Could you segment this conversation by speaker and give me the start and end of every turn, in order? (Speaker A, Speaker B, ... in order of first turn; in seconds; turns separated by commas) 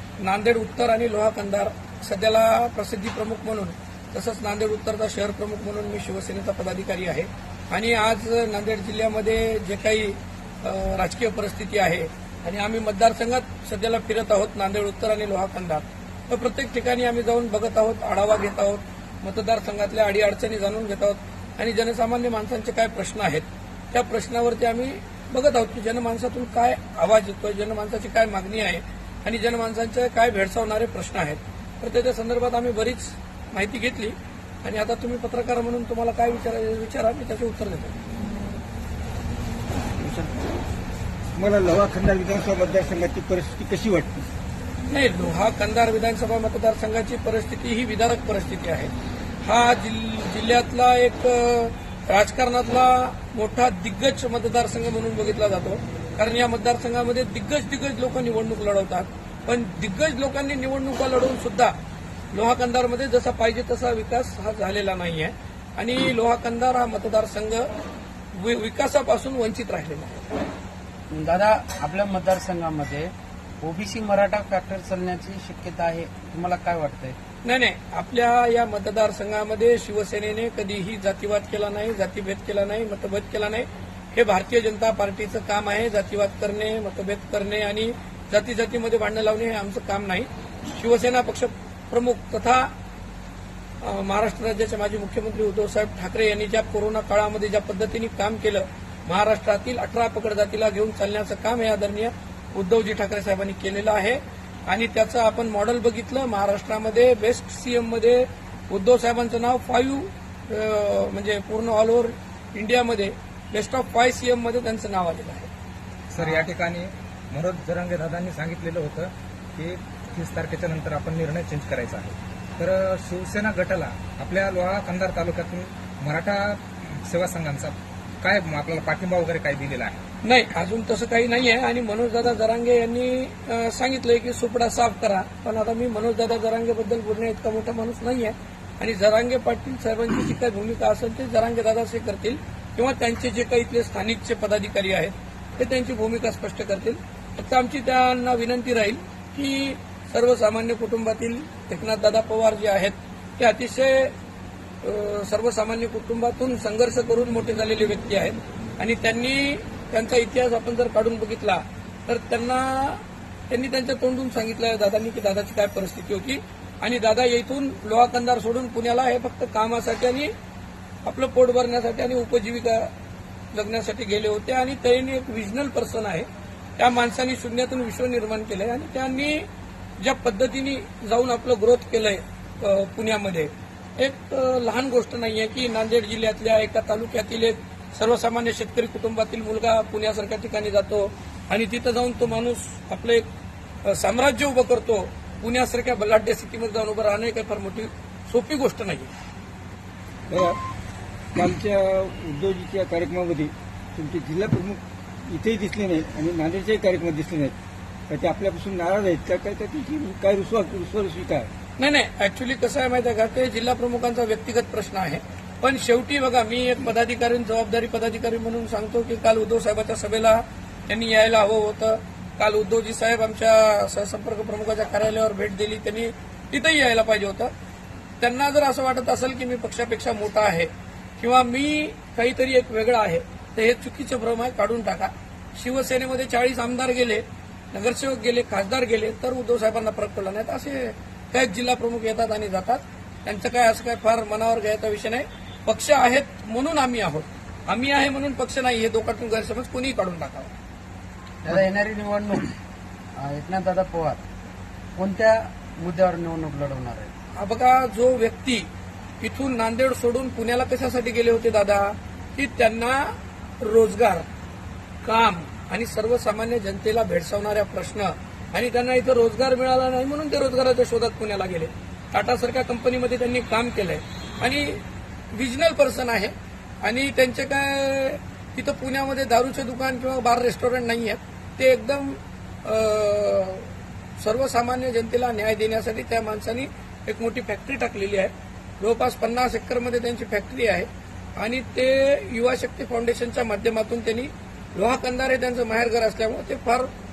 Speaker A: 0.2-38.0, Speaker B: 40.0-40.5, Speaker B: 41.4-44.2, Speaker A: 44.9-48.9, Speaker A: 49.4-61.7, Speaker A: 62.3-67.7, Speaker A: 68.3-70.3, Speaker C: 71.1-77.2, Speaker A: 77.4-92.7, Speaker A: 93.8-115.5, Speaker D: 116.1-130.0, Speaker A: 130.2-154.1, Speaker A: 154.8-170.3, Speaker A: 171.0-172.9, Speaker A: 173.5-176.3, Speaker A: 176.8-179.4, Speaker A: 180.0-193.3, Speaker A: 193.8-199.1, Speaker B: 200.3-200.6, Speaker B: 201.3-207.5, Speaker B: 208.1-211.5, Speaker A: 211.8-227.5, Speaker A: 228.2-250.5, Speaker C: 251.4-252.5, Speaker C: 253.2-254.2, Speaker C: 254.9-257.1, Speaker A: 257.3-258.7, Speaker A: 259.2-264.2, Speaker A: 265.0-274.8, Speaker A: 275.3-283.7, Speaker A: 284.2-296.9